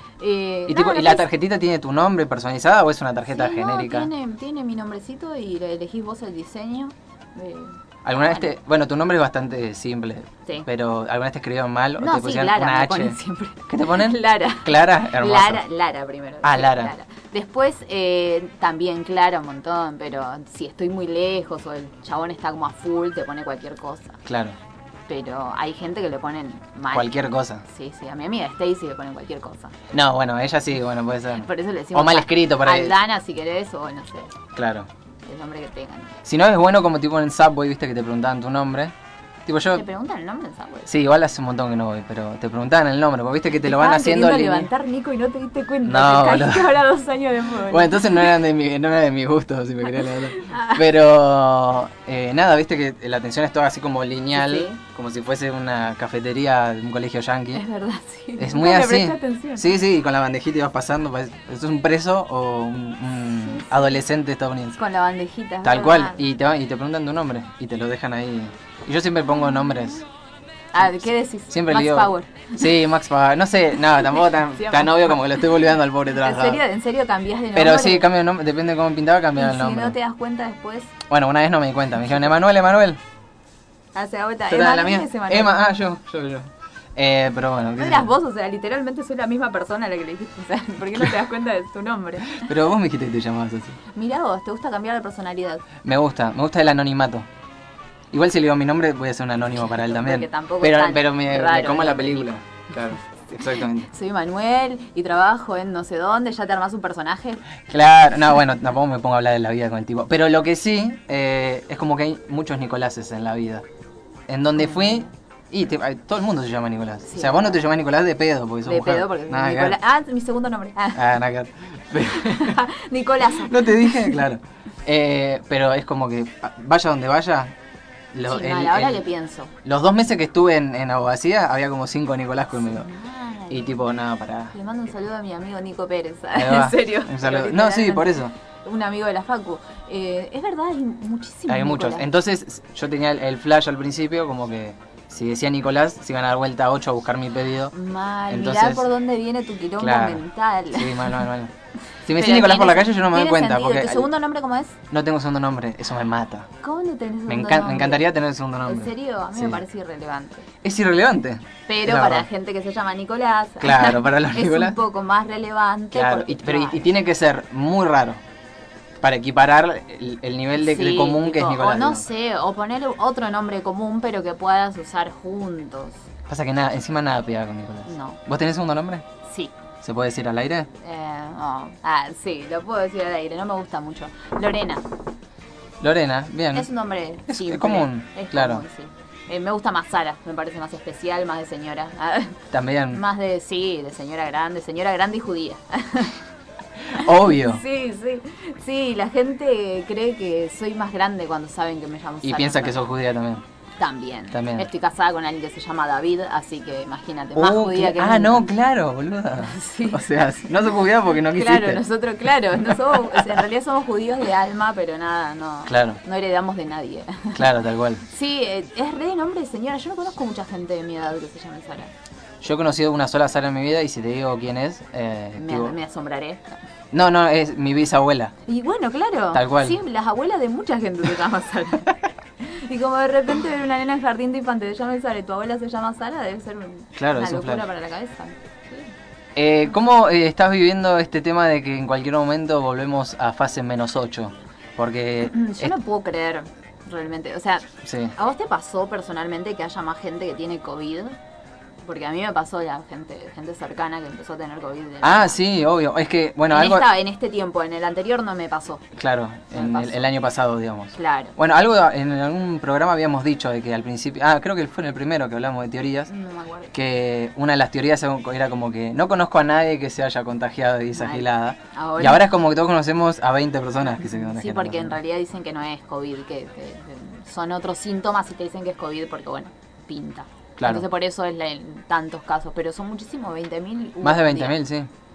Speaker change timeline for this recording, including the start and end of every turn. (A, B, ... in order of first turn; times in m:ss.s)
0:00.2-0:01.3 A
0:00.7-0:04.1 B
0:03.3-0:08.5 A
0:08.0-0:15.6 B
0:12.0-0:24.2 A
0:16.4-0:16.9 B
0:24.2-0:24.6 B
0:25.1-0:29.8 A
0:26.9-0:27.6 B
0:29.9-0:33.0 B
0:31.4-0:34.4 A
0:34.6-0:34.9 B
0:35.3-0:36.2 A
0:36.2-0:38.9 B
0:39.5-0:39.8 B
0:39.7-0:40.9 A
0:40.9-0:44.7 B
0:43.6-0:48.4 A
0:45.8-0:46.7 B
0:47.6-0:57.6 B
0:49.9-0:50.9 A
0:54.4-0:54.8 A
0:57.5-0:59.7 A
0:58.4-1:04.8 B
1:03.3-1:03.9 A
1:04.8-1:06.2 A
1:05.6-1:10.0 B
1:09.3-1:10.0 A
1:10.7-1:12.7 A
1:11.5-1:16.6 B
1:14.5-1:15.2 A
1:16.2-1:18.1 A
1:17.6-1:20.0 B
1:19.4-1:20.9 A
1:21.1-1:23.0 B
1:24.0-1:25.6 A
1:24.5-1:28.1 B
1:27.8-1:32.5 A
1:32.4-1:33.8 B
1:33.9-1:35.6 A
1:35.8-1:37.3 B
1:38.1-1:43.9 B
1:39.7-1:42.3 A
1:43.9-1:47.4 A
1:47.7-1:53.6 B
1:54.3-1:59.8 B
1:54.6-1:55.1 A
1:57.1-1:57.6 A
1:58.6-2:01.0 A
2:01.0-2:02.6 B
2:02.2-2:04.2 A
2:03.3-2:07.5 B
2:08.1-2:09.0 B
2:08.2-2:09.5 A
2:09.6-2:12.9 B
2:12.6-2:13.8 A
2:13.5-2:14.5 B
2:14.5-2:22.1 A
2:16.4-2:18.3 B
2:21.5-2:27.7 B
2:27.7-2:31.2 A
2:28.3-2:28.9 B
2:29.8-2:31.5 B
2:32.0-2:34.1 B
2:32.1-2:34.8 A
2:34.9-2:36.5 B
2:36.6-2:38.1 A
2:37.3-2:39.6 B
2:38.6-2:40.5 A
2:40.6-2:42.3 B
2:41.7-2:46.9 A
2:43.6-2:44.8 B
2:45.9-2:48.2 B
2:49.0-2:52.1 B
2:50.6-2:56.0 A
2:56.3-2:59.0 B
2:57.9-2:58.2 A
2:59.2-2:59.5 A
2:59.8-3:00.7 B
3:00.8-3:04.9 A
3:05.8-3:06.7 B
3:06.5-3:16.2 A
3:07.3-3:08.6 B
3:12.5-3:13.0 B
3:16.9-3:17.6 B
3:16.9-3:22.9 A
3:22.2-3:23.4 B
3:23.8-3:28.5 A
3:24.3-3:24.7 B
3:27.4-3:31.8 B
3:29.4-3:30.1 A
3:31.3-3:37.5 A
3:32.6-3:33.4 B
3:35.7-3:36.0 B
3:37.4-3:38.0 B
3:38.0-3:41.9 A
3:42.4-3:45.8 B
3:45.4-3:46.6 A
3:46.9-3:48.3 B
3:48.5-3:58.9 A
3:49.3-3:49.8 B
3:57.0-3:57.6 B
3:59.4-4:05.8 B
4:05.3-4:11.2 A
4:07.8-4:08.1 B
4:11.8-4:15.4 A
4:15.0-4:16.9 B
4:16.5-4:18.9 A
4:19.0-4:26.1 B
4:19.5-4:20.1 A
4:21.0-4:21.4 A
4:26.1-4:26.7 A
4:26.7-4:35.0 B
4:30.9-4:32.2 A
4:33.9-4:44.6 A
4:40.6-4:40.8 B
4:44.0-4:44.9 B